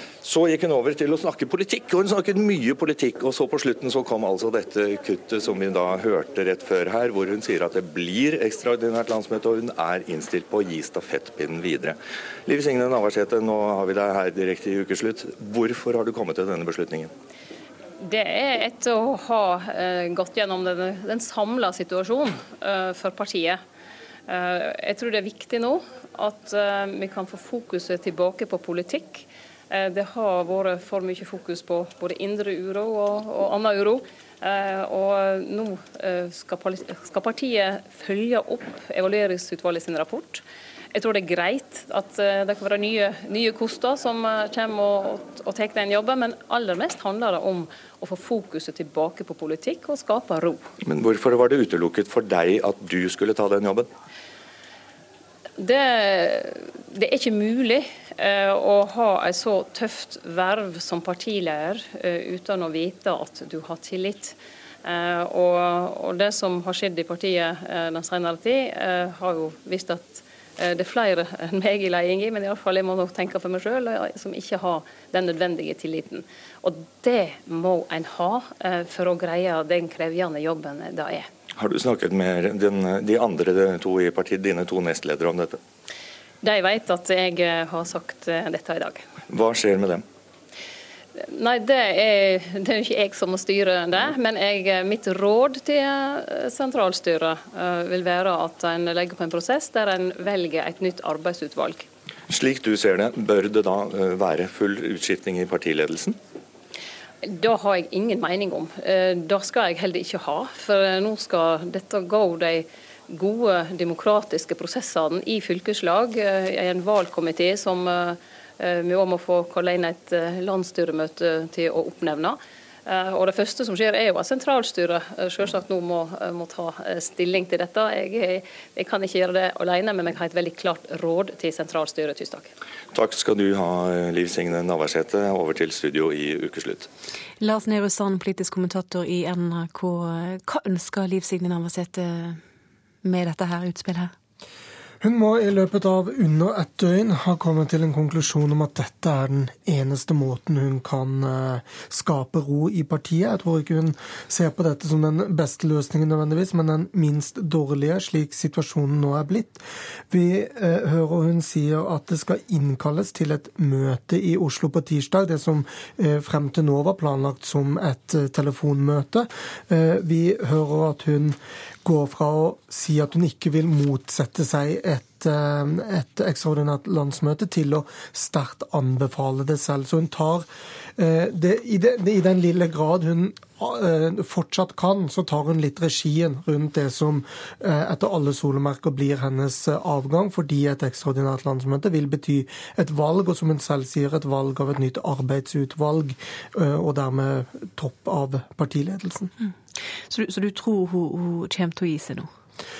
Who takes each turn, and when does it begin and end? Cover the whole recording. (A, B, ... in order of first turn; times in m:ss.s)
0:00.2-0:17.1 A
0:18.0-0:23.6 B
0:24.3-0:40.4 B
0:40.9-0:50.7 B
0:50.8-0:53.9 A
0:55.6-1:21.3 B
1:21.6-1:25.6 A
1:26.4-1:29.0 B
1:29.3-1:30.0 A
1:31.2-1:41.9 B
1:42.3-1:46.2 A
1:47.2-2:12.5 B
2:12.9-2:16.9 A
2:17.4-2:22.4 C
2:23.0-2:24.1 C
2:25.0-3:00.5 D
3:01.0-3:19.3 D
3:20.1-3:22.3 C